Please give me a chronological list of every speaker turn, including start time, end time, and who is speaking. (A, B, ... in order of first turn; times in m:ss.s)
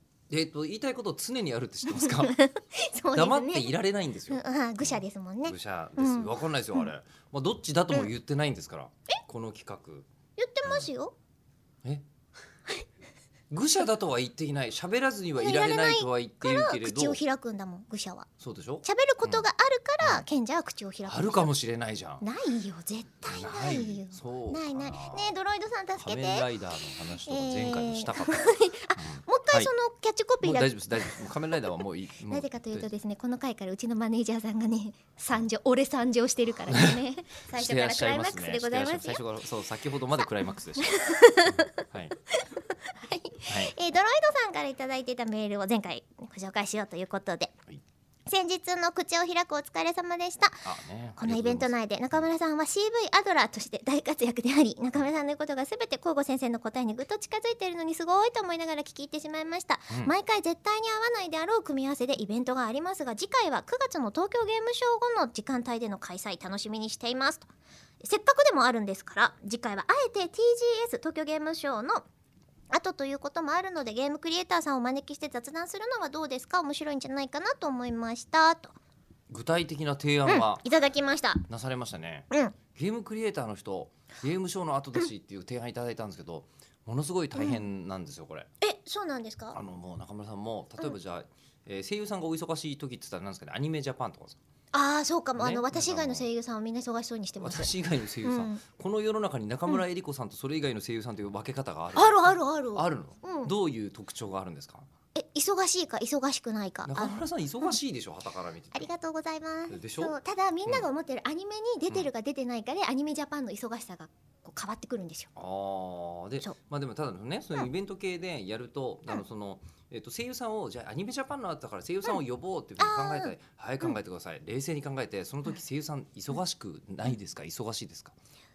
0:00.3-0:02.4 A
0:01.9-0:03.7 B
0:03.1-0:10.1 A
0:04.3-0:06.9 B
0:10.4-0:11.2 B
0:13.5-0:17.2 A
0:15.4-0:18.3 B
0:18.4-0:19.5 A
0:18.8-0:21.5 B
0:21.1-0:22.3 A
0:22.2-0:26.5 B
0:23.3-0:25.3 A
0:26.0-0:29.7 A
0:27.1-0:31.8 B
0:30.4-0:32.9 A
0:32.3-0:39.2 B
0:36.7-0:37.0 A
0:37.5-0:42.2 A
0:40.8-0:41.8 B
0:42.4-0:47.5 B
0:43.5-0:43.7 A
0:48.3-0:50.7 B
0:50.6-0:52.3 A
0:51.2-1:07.5 B
1:08.0-1:12.0 B
1:12.7-1:18.8 B
1:19.3-1:20.7 A
1:20.3-1:21.4 B
1:21.5-1:28.5 A
1:22.3-1:22.6 B
1:27.4-1:27.6 B
1:28.6-1:29.6 B
1:29.5-1:34.4 A
1:34.7-1:38.6 B
1:35.4-1:36.3 A
1:37.4-1:44.9 A
1:41.9-1:43.5 B
1:45.2-1:47.8 B
1:46.9-1:48.9 A
1:48.7-1:55.3 B
1:49.7-1:50.9 A
1:55.4-2:08.2 A
2:02.8-2:03.3 B